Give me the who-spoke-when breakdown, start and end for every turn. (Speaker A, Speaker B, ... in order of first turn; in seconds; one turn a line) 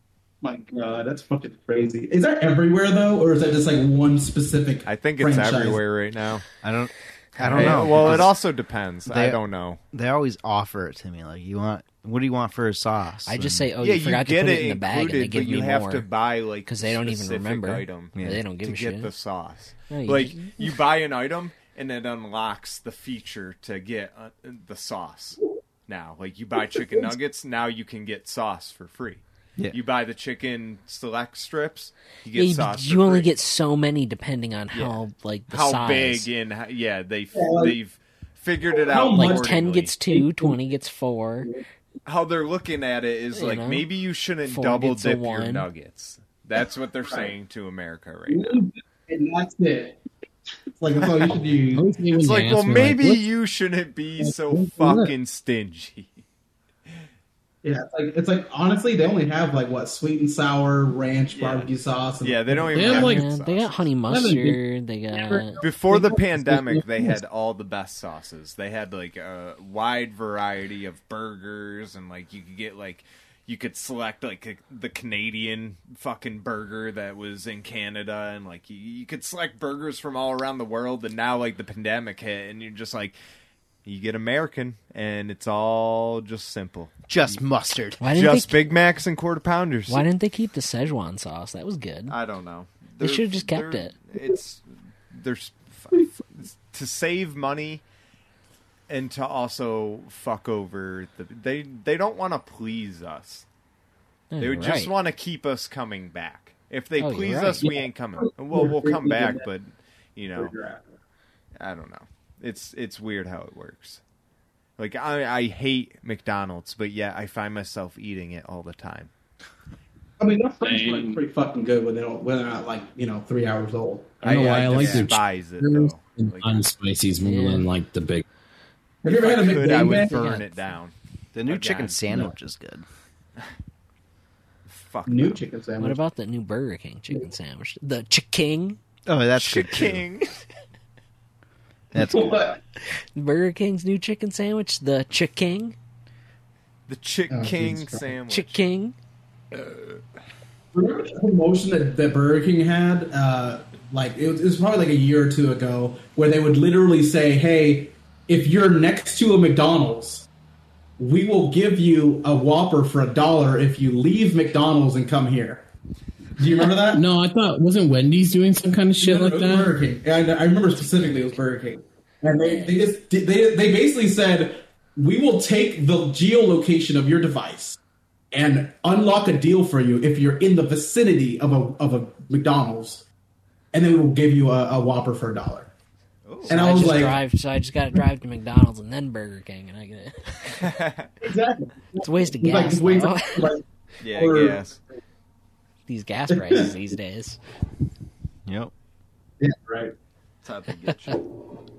Speaker A: 0.4-5.8
Speaker B: 4.8-6.5
Speaker C: 6.6-8.3
Speaker B: 7.4-9.8
Speaker A: 7.7-8.2
Speaker C: 9.1-9.4
Speaker C: 9.9-13.7
Speaker D: 13.3-16.1
Speaker B: 13.8-33.3
Speaker D: 16.6-19.1
Speaker C: 18.1-18.4
Speaker D: 19.9-20.6
Speaker A: 26.7-27.1
Speaker D: 32.3-36.3
Speaker B: 34.7-39.9
Speaker A: 37.3-37.8
Speaker A: 38.7-39.5
Speaker D: 39.1-41.5
Speaker A: 40.1-40.6
Speaker B: 42.0-48.6
Speaker D: 43.3-43.9
Speaker D: 44.4-45.7
Speaker A: 47.0-47.3
Speaker A: 48.3-50.0
Speaker A: 50.8-51.9
Speaker E: 51.7-53.2
Speaker B: 52.1-56.2
Speaker E: 54.2-55.1
Speaker A: 57.6-63.1
Speaker B: 61.3-63.9
Speaker E: 62.7-63.2
Speaker D: 63.0-65.6
Speaker E: 64.1-64.6
Speaker E: 65.2-67.2
Speaker B: 65.6-83.2
Speaker B: 83.8-86.9
Speaker C: 87.1-88.0
Speaker D: 88.0-88.6
Speaker B: 88.0-90.0
Speaker D: 89.9-92.2
Speaker B: 92.1-97.8
Speaker D: 93.0-93.9
Speaker B: 98.9-103.4
Speaker D: 104.3-104.9
Speaker B: 104.4-110.5
Speaker D: 107.0-107.7
Speaker A: 107.6-109.5
Speaker A: 110.3-110.9
Speaker B: 111.6-114.0
Speaker B: 114.8-119.1
Speaker A: 120.2-124.5
Speaker E: 120.6-121.2
Speaker B: 124.2-126.7
Speaker E: 124.2-128.2
Speaker C: 124.7-125.0
Speaker D: 127.2-127.7
Speaker A: 129.0-130.2
Speaker B: 129.0-130.9
Speaker D: 130.1-130.4
Speaker C: 131.3-132.8
Speaker B: 131.4-132.0
Speaker B: 134.7-135.4
Speaker A: 135.1-136.0
Speaker D: 135.8-138.8
Speaker C: 139.1-140.0
Speaker B: 139.3-140.3
Speaker C: 141.9-142.6
Speaker A: 141.9-142.6
Speaker D: 143.1-145.8
Speaker B: 146.9-148.6
Speaker A: 147.3-148.0
Speaker D: 148.3-148.9
Speaker B: 149.5-149.9
Speaker A: 150.7-160.3
Speaker A: 161.0-165.6
Speaker A: 166.4-167.0
Speaker E: 166.8-169.7
Speaker A: 169.0-177.8
Speaker D: 172.4-172.7
Speaker A: 178.3-183.0
Speaker A: 183.7-185.7
Speaker B: 186.3-187.0
Speaker A: 186.5-187.2
Speaker D: 186.5-190.3
Speaker B: 190.5-191.1
Speaker A: 191.2-194.7
Speaker D: 192.0-193.5
Speaker B: 194.0-194.8
Speaker D: 195.9-197.4
Speaker A: 196.3-196.7
Speaker C: 198.4-198.7
Speaker A: 199.4-199.9
Speaker B: 200.4-201.2